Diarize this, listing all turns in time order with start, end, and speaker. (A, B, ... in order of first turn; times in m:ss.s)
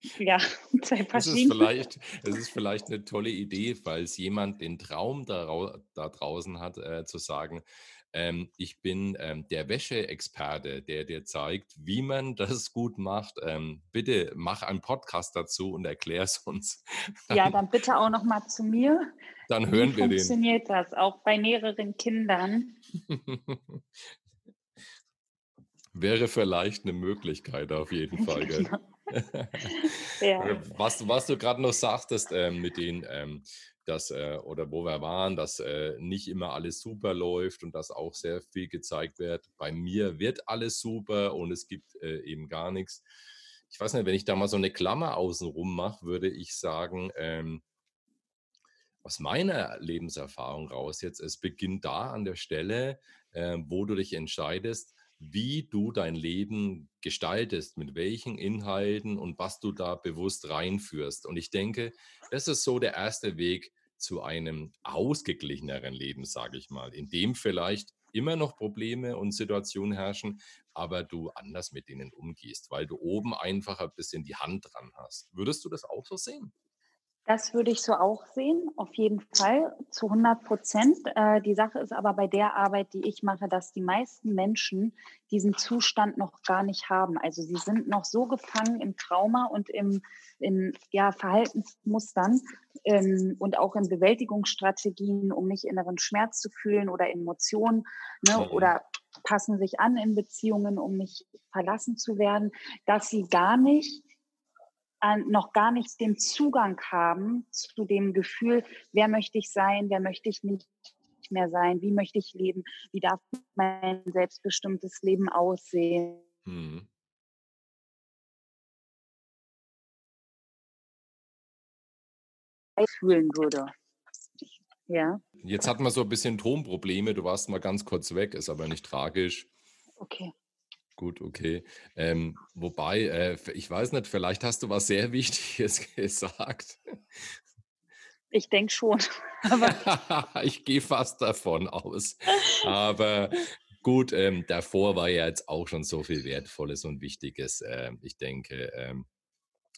0:00.2-0:01.7 A
0:01.1-0:17.6 B
0:17.3-0:19.1 A
0:19.5-0:20.4 B
0:19.7-0:22.8 A
0:23.1-0:24.0 B
0:25.9-0:43.0 B
0:28.2-0:28.8 A
0:29.6-0:30.6 A
0:43.7-0:47.6 B
0:49.0-1:16.5 B
1:17.3-1:44.0 A
1:38.4-1:38.7 B
1:45.0-1:56.2 A
1:56.4-1:56.9 B
2:02.8-2:03.7 A
2:04.9-2:05.2 A
2:05.4-2:09.5 B
2:10.0-2:10.3 A
2:11.0-2:17.4 B
2:18.3-2:19.8 A
2:19.6-2:29.1 B